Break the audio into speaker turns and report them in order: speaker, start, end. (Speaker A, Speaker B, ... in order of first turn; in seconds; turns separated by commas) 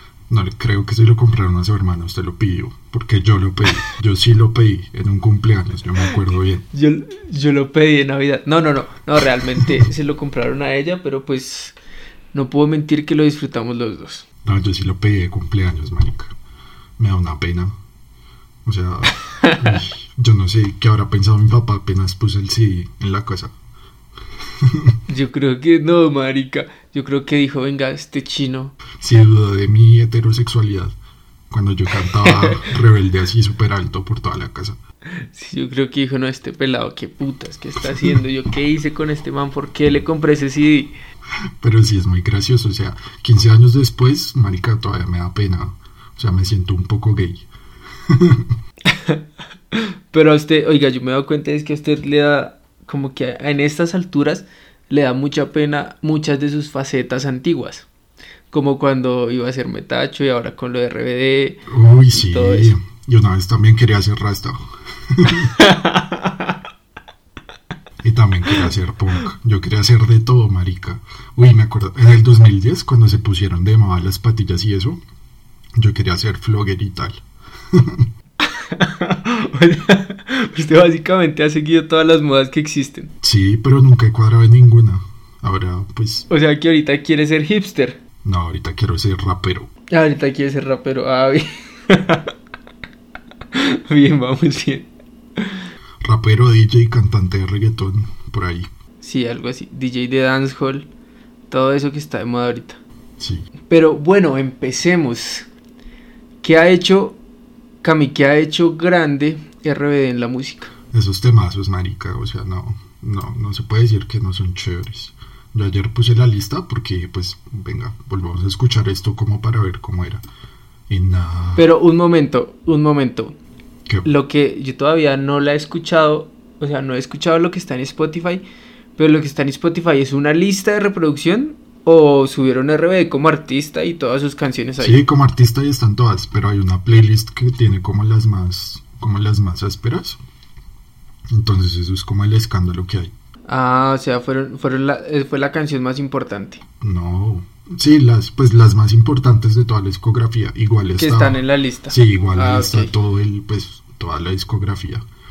Speaker A: 0.3-6.7, Speaker B: 6.7-11.8, Speaker B: 12.3-14.2, Speaker A: 14.4-16.3, Speaker A: 17.0-17.7, Speaker A: 18.6-23.5, Speaker B: 19.4-19.7, Speaker A: 24.6-24.9, Speaker B: 25.1-28.8, Speaker A: 29.0-30.9, Speaker A: 31.5-34.8, Speaker B: 32.2-32.7, Speaker B: 35.3-40.9, Speaker A: 41.6-47.5, Speaker A: 48.1-48.5, Speaker B: 48.9-57.9, Speaker B: 58.5-62.7, Speaker A: 61.7-65.5, Speaker B: 65.4-66.5, Speaker A: 68.0-75.0, Speaker A: 75.8-78.1, Speaker B: 78.4-83.1, Speaker A: 83.2-86.3, Speaker B: 86.3-88.0, Speaker A: 88.2-89.7, Speaker B: 89.9-92.3, Speaker B: 93.5-95.6, Speaker A: 96.0-98.7, Speaker B: 99.0-100.9, Speaker B: 101.5-102.8, Speaker A: 103.2-103.5, Speaker B: 103.7-105.5, Speaker B: 106.4-107.2, Speaker B: 107.8-110.7, Speaker A: 110.9-120.2, Speaker A: 120.9-121.6, Speaker B: 121.6-123.3, Speaker B: 124.0-128.4, Speaker B: 129.0-135.0, Speaker A: 134.8-140.2, Speaker A: 141.3-143.1, Speaker B: 143.5-146.6, Speaker A: 146.8-155.1, Speaker B: 151.0-152.9